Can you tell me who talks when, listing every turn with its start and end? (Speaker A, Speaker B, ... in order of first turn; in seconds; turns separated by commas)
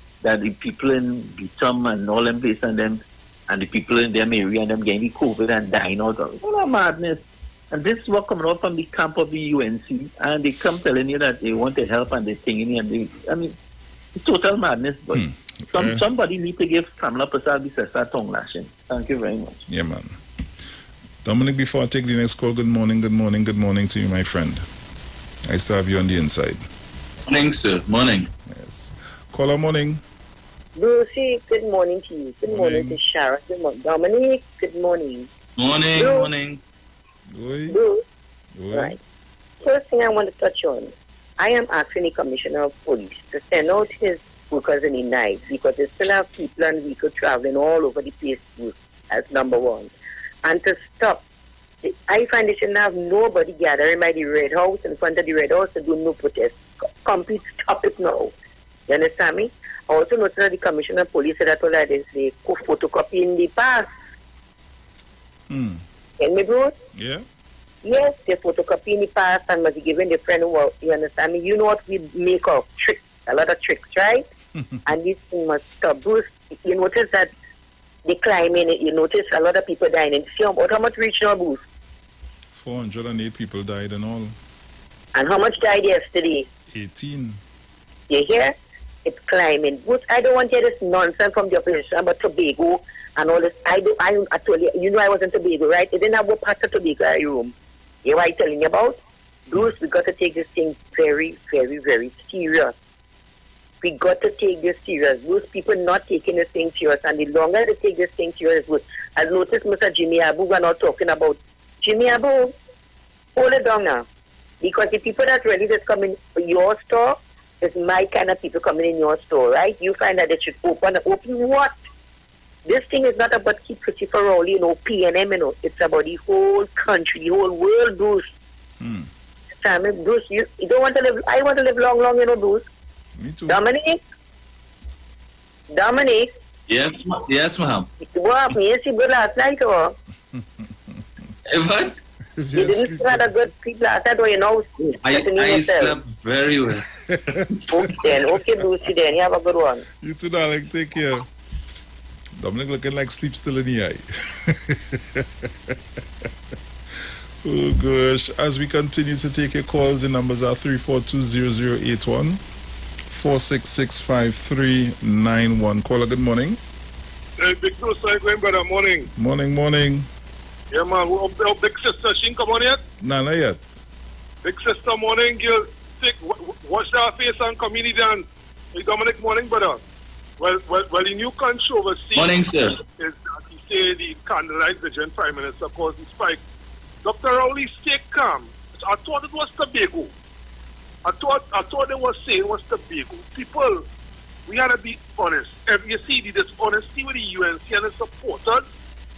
Speaker A: 0.2-13.5, Speaker A: 14.2-19.6, Speaker B: 15.1-16.1, Speaker B: 19.7-20.2, Speaker B: 21.2-24.6, Speaker B: 25.4-26.6, Speaker C: 27.3-28.3, Speaker B: 28.5-30.0, Speaker D: 30.8-35.3, Speaker B: 32.5-33.0, Speaker C: 35.6-36.6, Speaker D: 35.9-36.3, Speaker B: 37.3-37.8, Speaker D: 37.7-38.0, Speaker B: 38.5-39.0, Speaker D: 39.6-49.9, Speaker D: 50.4-51.2, Speaker D: 51.8-58.3, Speaker D: 58.9-63.9, Speaker B: 65.5-65.8, Speaker D: 66.2-66.7, Speaker B: 66.9-67.2, Speaker D: 67.8-74.2, Speaker D: 74.9-77.3, Speaker D: 78.0-81.6, Speaker B: 82.5-84.3, Speaker D: 85.1-86.5, Speaker B: 86.7-87.4, Speaker D: 88.1-88.5, Speaker D: 89.0-97.5, Speaker D: 98.0-99.0, Speaker D: 99.5-102.7, Speaker D: 103.8-112.5, Speaker D: 113.3-114.0, Speaker D: 114.6-121.7, Speaker D: 122.7-128.2, Speaker B: 128.8-129.1, Speaker D: 129.6-132.6, Speaker B: 133.2-133.6, Speaker D: 133.5-134.0, Speaker D: 135.7-136.3, Speaker C: 136.7-137.9, Speaker D: 138.0-139.9, Speaker C: 141.5-141.9, Speaker D: 142.5-146.0, Speaker B: 142.7-143.2, Speaker C: 145.0-146.8, Speaker D: 147.7-149.8, Speaker C: 147.9-148.2, Speaker B: 150.0-151.2, Speaker B: 152.3-155.8, Speaker B: 156.9-162.4, Speaker B: 163.1-166.6, Speaker E: 167.4-169.1, Speaker B: 169.1-170.1, Speaker E: 170.7-172.8, Speaker B: 173.0-173.6, Speaker E: 174.4-179.8, Speaker E: 180.4-186.4, Speaker C: 182.1-182.8, Speaker E: 187.0-190.1, Speaker E: 191.0-193.8, Speaker E: 194.5-198.6